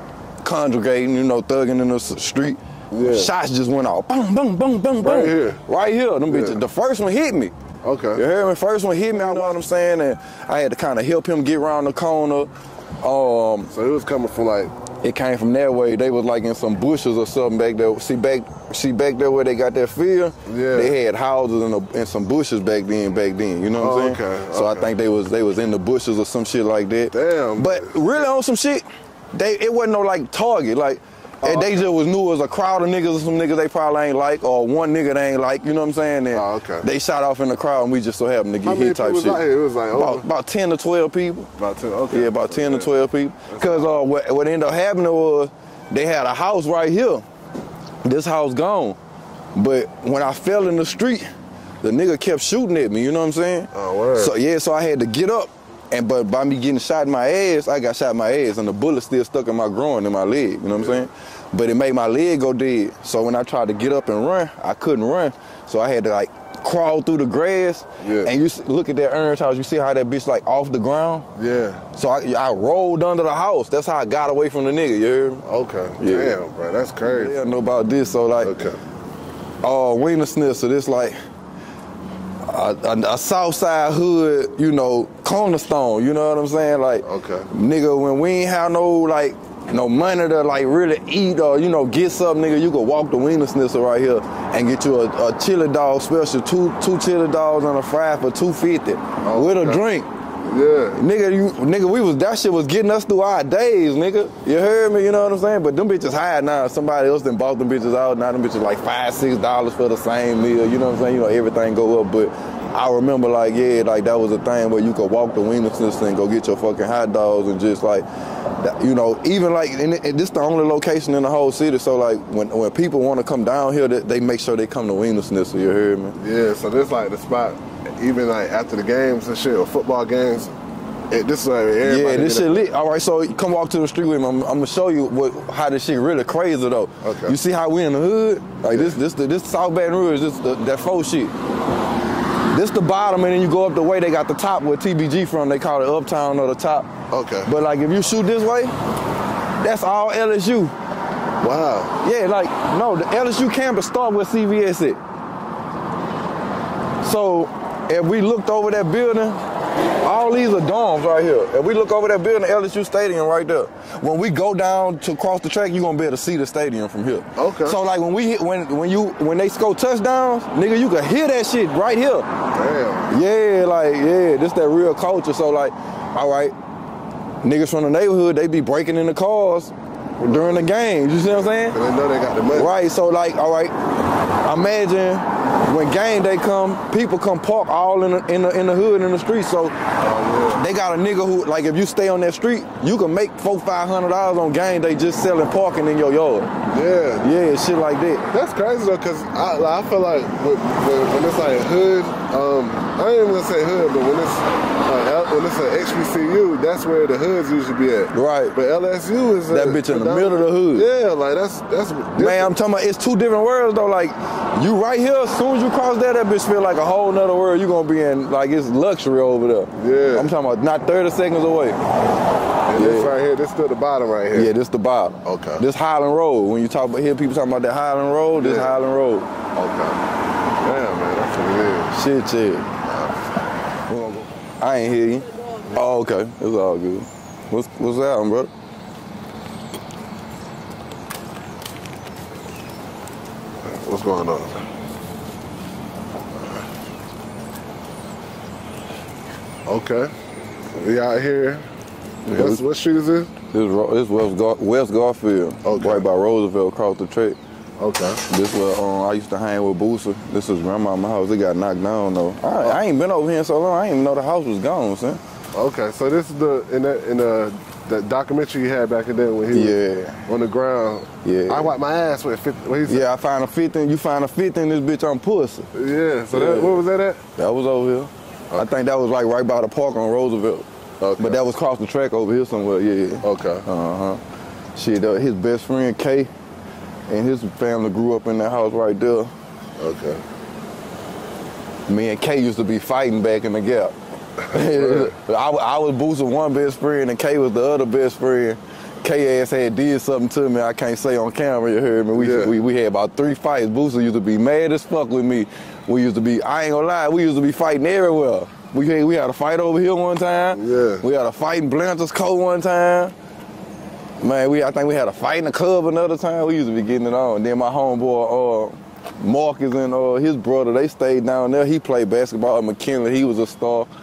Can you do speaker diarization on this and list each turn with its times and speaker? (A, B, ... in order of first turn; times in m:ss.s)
0:00.4-0:07.5 A
0:02.9-0:03.3 B
0:05.0-0:05.6 B
0:06.3-0:06.6 B
0:07.8-0:08.2 B
0:08.2-0:12.5 A
0:09.2-0:09.5 B
0:13.0-0:13.7 A
0:13.7-0:14.7 B
0:15.0-0:39.4 A
0:20.4-0:20.9 B
0:23.8-0:24.9 B
0:27.1-0:28.2 B
0:31.4-0:31.9 B
0:36.3-0:36.8 B
0:38.6-0:40.2 B
0:39.9-0:41.5 A
0:41.6-0:42.9 B
0:42.1-0:47.2 A
0:43.5-0:43.9 B
0:48.0-0:49.0 A
0:49.5-0:51.2 A
0:51.8-1:11.2 A
0:53.7-0:54.3 B
1:08.0-1:08.3 B
1:11.4-1:11.8 B
1:11.9-1:15.4 A
1:15.4-1:17.4 B
1:16.0-1:16.4 A
1:17.0-1:18.6 A
1:18.4-1:18.8 B
1:19.6-1:21.2 A
1:22.4-1:40.1 A
1:27.0-1:27.5 B
1:39.2-1:39.8 B
1:40.4-1:41.0 B
1:40.9-1:58.0 A
1:58.6-2:06.2 A
2:06.2-2:10.5 B
2:11.1-2:12.7 B
2:11.8-2:21.3 A
2:17.0-2:17.4 B
2:18.7-2:19.0 B
2:22.5-2:26.9 A
2:27.1-2:27.5 B
2:27.4-2:28.7 A
2:29.6-2:30.7 A
2:31.4-2:32.0 B
2:32.0-2:35.0 A
2:37.0-2:39.4 A
2:40.0-2:52.3 A
2:47.4-2:47.8 B
2:52.5-2:53.1 B
2:53.1-2:56.5 A
2:57.4-3:01.8 A
3:00.2-3:00.7 B
3:01.2-3:02.8 B
3:02.5-3:03.7 A
3:04.4-3:09.8 A
3:10.0-3:10.6 B
3:10.5-3:16.5 A
3:16.7-3:17.3 B
3:17.2-3:18.3 A
3:18.3-3:32.6 B
3:28.1-3:28.5 A
3:29.5-3:30.8 A
3:32.2-3:41.8 A
3:39.8-3:40.3 B
3:42.7-3:44.5 B
3:42.7-3:43.1 A
3:44.3-3:49.3 A
3:45.2-3:45.6 B
3:48.4-3:48.8 B
3:49.5-3:50.0 B
3:50.6-3:52.0 B
3:51.9-3:52.7 A
3:52.8-3:53.2 B
3:53.9-3:58.5 A
4:03.6-4:04.6 B
4:06.4-4:06.6 B
4:09.6-4:10.1 B
4:10.7-4:11.6 B
4:12.2-4:12.6 A
4:12.3-4:13.3 B
4:13.5-4:17.4 A
4:15.6-4:16.0 B
4:17.8-4:18.2 B
4:18.2-4:25.2 A
4:25.5-4:33.0 B
4:29.5-4:30.2 A
4:31.2-4:31.7 A
4:32.9-4:35.7 A
4:35.7-4:37.2 B
4:36.3-4:36.8 A
4:37.4-4:40.7 A
4:41.0-4:41.4 B
4:41.2-4:44.2 A
4:43.2-4:43.6 B
4:44.8-4:46.3 A
4:47.1-4:49.3 A
4:49.8-4:50.2 B
4:51.9-4:53.9 A
4:54.4-4:55.1 B
4:54.5-5:13.1 A
5:02.1-5:02.5 B
5:10.5-5:11.0 B
5:14.2-5:23.9 A